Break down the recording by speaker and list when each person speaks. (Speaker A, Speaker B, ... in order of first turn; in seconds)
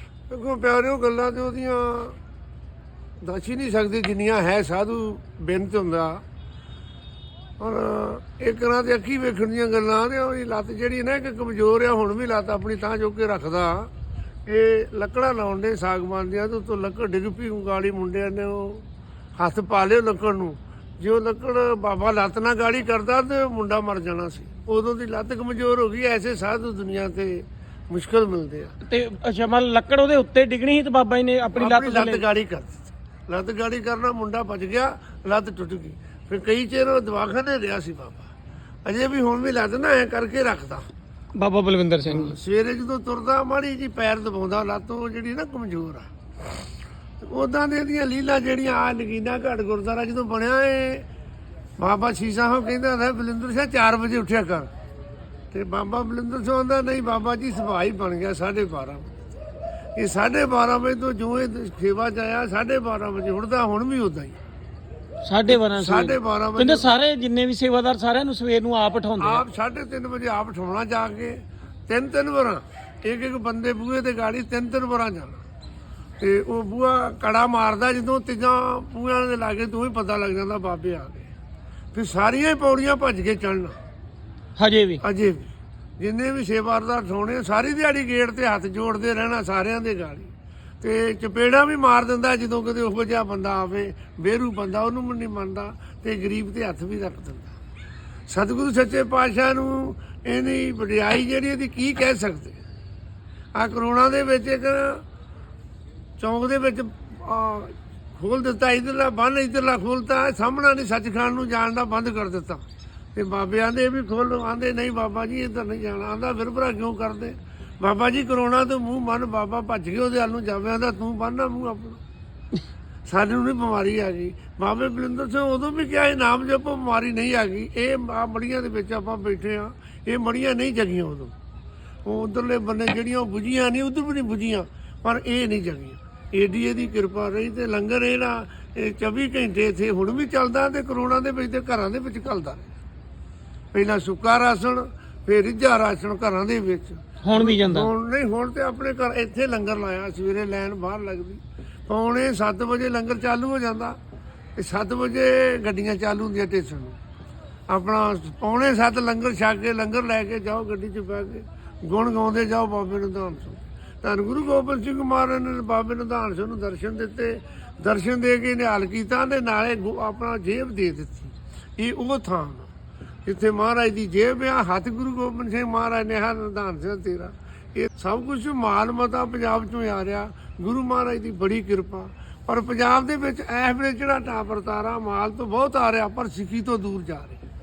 Speaker A: 0.3-2.2, 3.2-6.2, 7.6-13.9, 14.5-18.8, 19.4-28.7, 31.6-38.3, 38.9-40.9, 42.1-46.1, 47.2-51.0, 51.8-54.7, 55.5-59.1, 60.0-64.4, 65.5-66.9, 69.2-75.4, 76.2-81.3, 81.9-83.8, 85.0-85.5, 86.0-97.5, 98.3-102.6, 103.5-105.0, 106.2-112.6, 113.1-122.0, 123.1-131.3, 132.0-142.7, 143.7-154.0, 154.6-156.9, 157.7-172.7, 173.2-187.4
Speaker B: 28.9-32.2, 41.4-42.4, 65.2-69.4, 84.6-85.0, 147.2-147.9